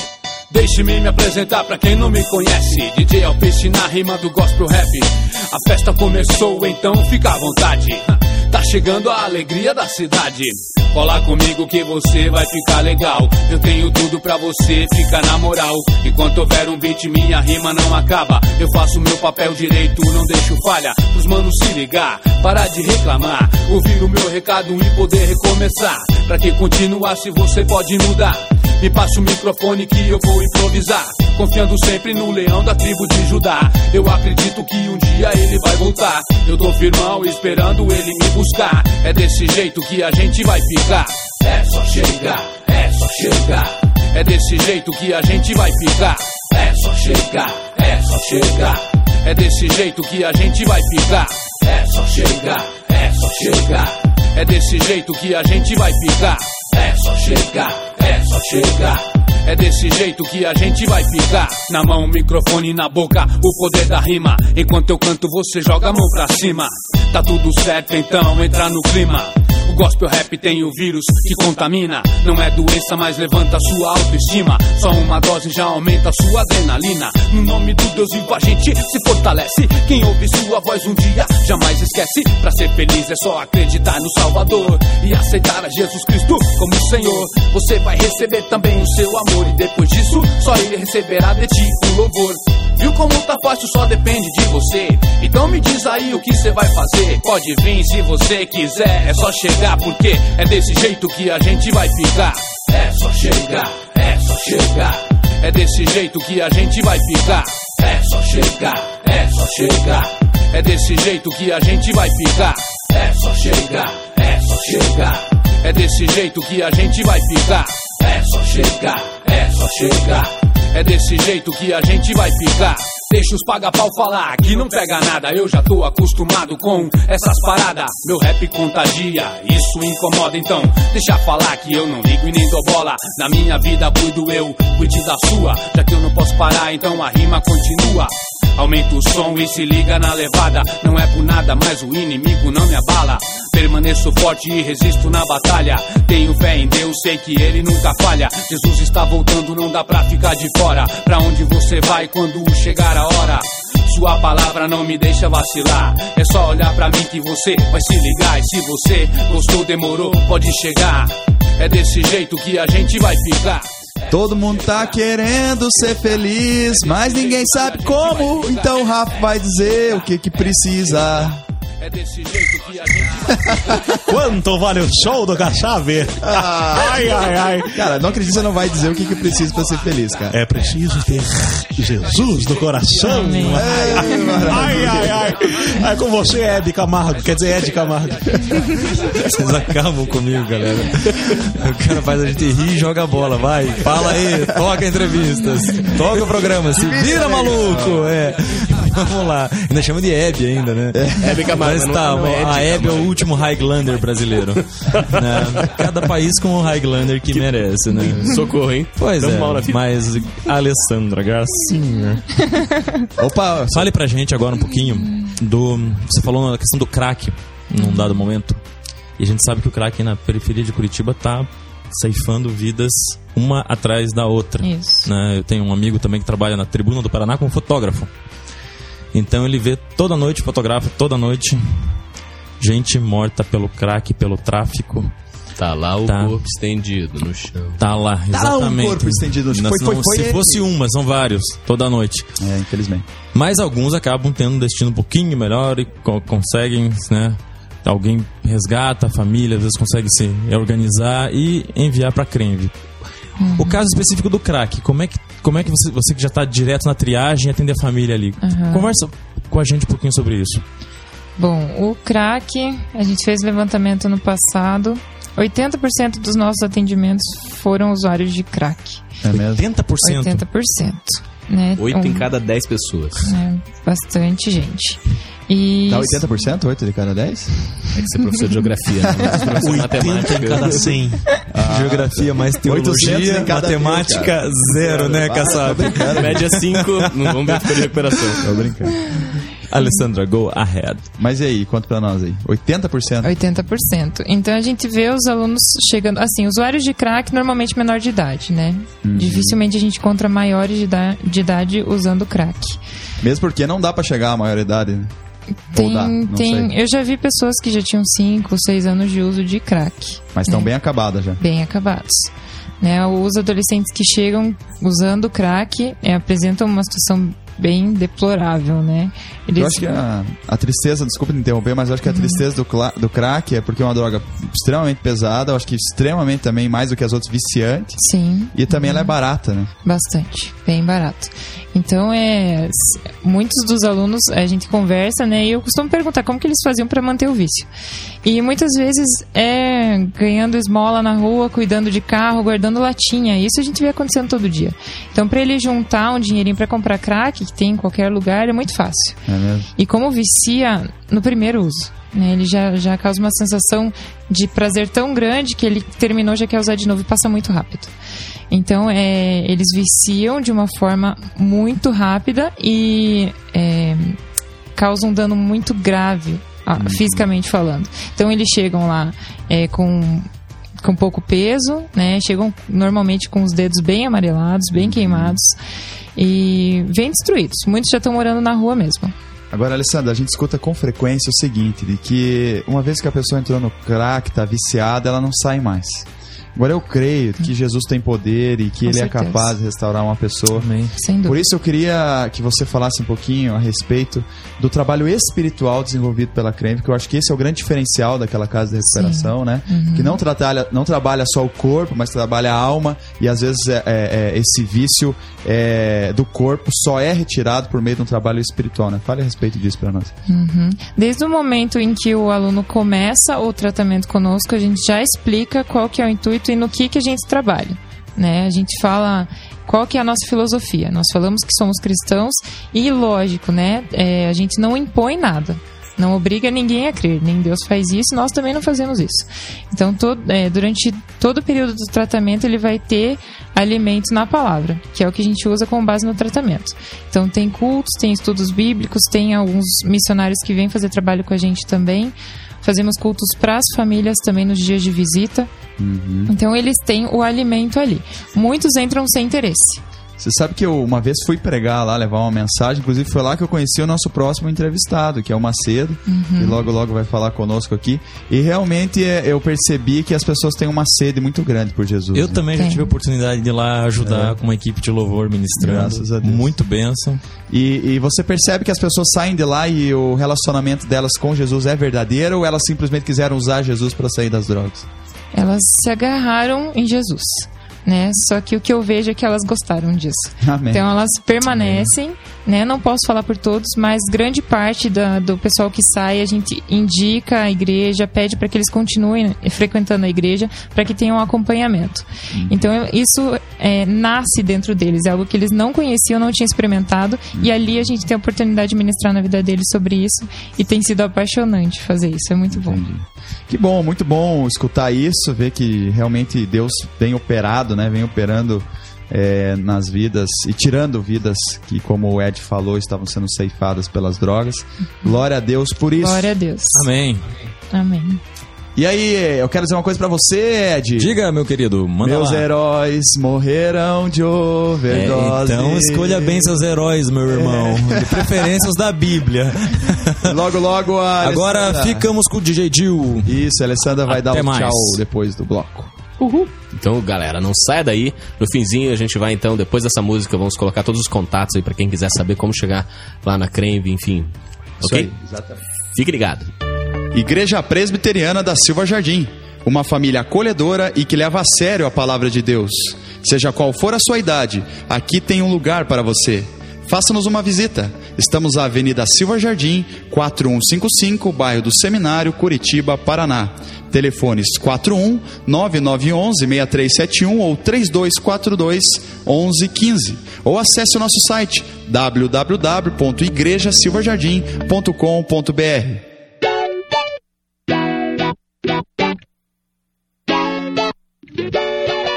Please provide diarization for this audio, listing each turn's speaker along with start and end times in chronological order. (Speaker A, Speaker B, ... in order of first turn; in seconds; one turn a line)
Speaker A: 0.5-163.7
Speaker B: 164.1-171.4
Speaker A: 164.3-164.8
Speaker A: 166.7-169.1
Speaker A: 170.6-171.3
Speaker A: 171.8-174.0
Speaker C: 174.1-177.8
Speaker B: 176.2-180.4
Speaker A: 178.4-180.8
Speaker C: 180.3-188.3
Speaker A: 181.7-182.8
Speaker D: 183.0-184.5
Speaker B: 183.5-185.2
Speaker A: 184.9-186.1
Speaker A: 186.9-190.8
Speaker E: 188.9-212.5
Speaker F: 191.1-191.4
Speaker B: 194.0-194.7
Speaker B: 196.6-198.2
Speaker B: 200.9-201.5
Speaker F: 201.1-203.2
Speaker F: 204.6-205.9
Speaker F: 207.3-209.8
Speaker D: 212.5-212.9
Speaker B: 213.2-213.9
Speaker E: 213.7-218.6
Speaker D: 217.8-218.2
Speaker E: 219.2-228.1
Speaker D: 224.6-225.1
Speaker E: 229.1-231.9
Speaker E: 232.6-235.1
Speaker F: 235.6-237.8
Speaker E: 236.0-236.4
Speaker E: 237.8-242.3
Speaker B: 238.3-240.6
Speaker B: 242.4-243.1
Speaker E: 243.3-252.8
Speaker D: 253.4-253.9
Speaker E: 253.5-260.6
Speaker D: 258.4-259.0
Speaker D: 261.4-269.1
Speaker B: 269.2-269.6
Speaker E: 269.3-270.4
Speaker D: 270.0-272.3
Speaker F: 271.8-273.3
Speaker D: 273.2-276.2
Speaker B: 275.9-277.5
Speaker F: 277.9-281.0
Speaker C: 279.6-281.4
Speaker E: 281.5-288.4
Speaker B: 281.5-286.5
Speaker F: 286.1-288.4
Speaker B: 288.4-289.0
Speaker E: 289.7-291.1
Speaker B: 291.2-293.3
Speaker D: 293.2-302.8
Speaker B: 299.0-299.6
Speaker B: 303.2-305.1
Speaker D: 305.7-310.7
Speaker B: 305.7-306.7
Speaker B: 310.3-311.4
Speaker D: 311.4-320.0
Speaker B: 319.5-328.0
Speaker D: 322.1-322.4
Speaker D: 328.0-329.1
Speaker B: 328.5-329.7
Speaker D: 329.8-337.7
Speaker D: 338.2-349.2
Speaker B: 349.2-349.7
Speaker D: 349.8-357.9
Speaker D: 358.5-364.2
Speaker D: 364.7-370.3
Speaker B: 366.8-367.3
Speaker D: 370.8-375.5
Speaker B: 374.8-375.4
Speaker D: 376.1-379.1
Speaker B: 379.5-410.1
Speaker D: 388.8-389.5
Speaker E: 390.6-390.9
Speaker D: 390.9-391.4
Speaker D: 398.9-400.2
Speaker D: 410.3-445.5
Speaker B: 445.8-446.3
Speaker D: 446.3-449.8
Speaker B: 450.2-462.4
Speaker D: 456.1-456.6
Speaker E: 462.1-467.2
Speaker D: 462.5-462.9
Speaker B: 464.0-464.4
Speaker B: 465.6-466.5
Speaker B: 467.5-474.9
Speaker D: 475.3-502.8
Speaker B: 480.4-480.9
Speaker B: 492.3-492.7
Speaker B: 497.3-497.8
Speaker B: 502.5-516.3
Speaker D: 516.0-516.9
Speaker E: 516.7-517.2
Speaker D: 517.7-518.2
Speaker B: 518.8-521.1
Speaker E: 521.0-522.5
Speaker B: 522.0-526.6
Speaker E: 524.9-530.4
Speaker B: 527.3-528.7
Speaker B: 530.2-532.1
Speaker E: 531.2-533.4
Speaker B: 533.2-535.9
Speaker E: 534.1-535.0
Speaker F: 536.2-545.1
Speaker B: 544.8-545.6
Speaker F: 545.9-546.5
Speaker B: 547.1-576.1